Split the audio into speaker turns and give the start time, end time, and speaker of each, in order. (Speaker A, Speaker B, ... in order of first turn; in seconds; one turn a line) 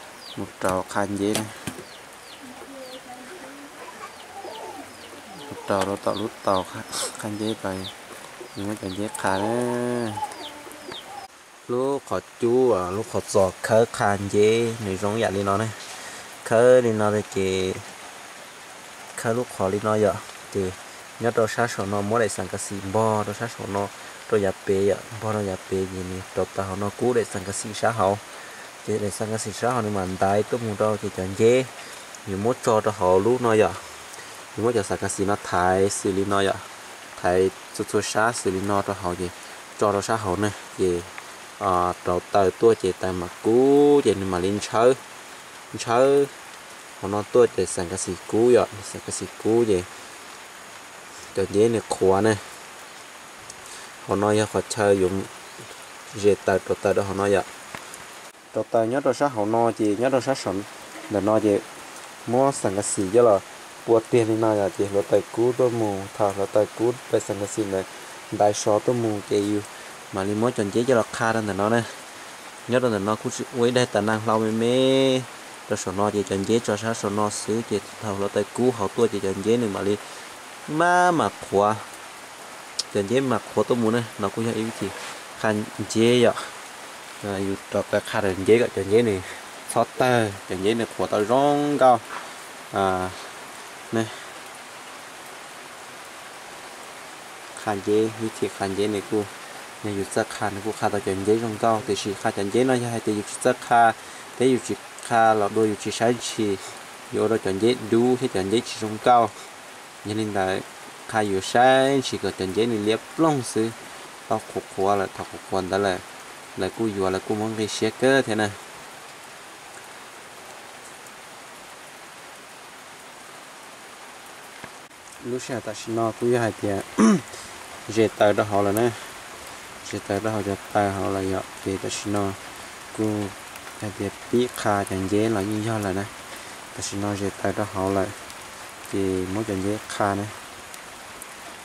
Speaker A: 0.3-1.8
Speaker A: 5.3-8.0
Speaker A: 8.5-10.2
Speaker A: 11.7-17.9
Speaker A: 19.1-45.0
Speaker A: 45.7-46.3
Speaker A: 47.0-49.9
Speaker A: 51.2-52.6
Speaker A: 53.7-57.5
Speaker A: 58.5-61.6
Speaker A: 62.2-72.0
Speaker A: 72.7-81.9
Speaker A: 82.8-86.4
Speaker A: 87.2-94.3
Speaker A: 97.5-109.4
Speaker A: 110.0-116.0
Speaker A: 116.5-118.6
Speaker A: 125.2-138.2
Speaker A: 138.9-140.4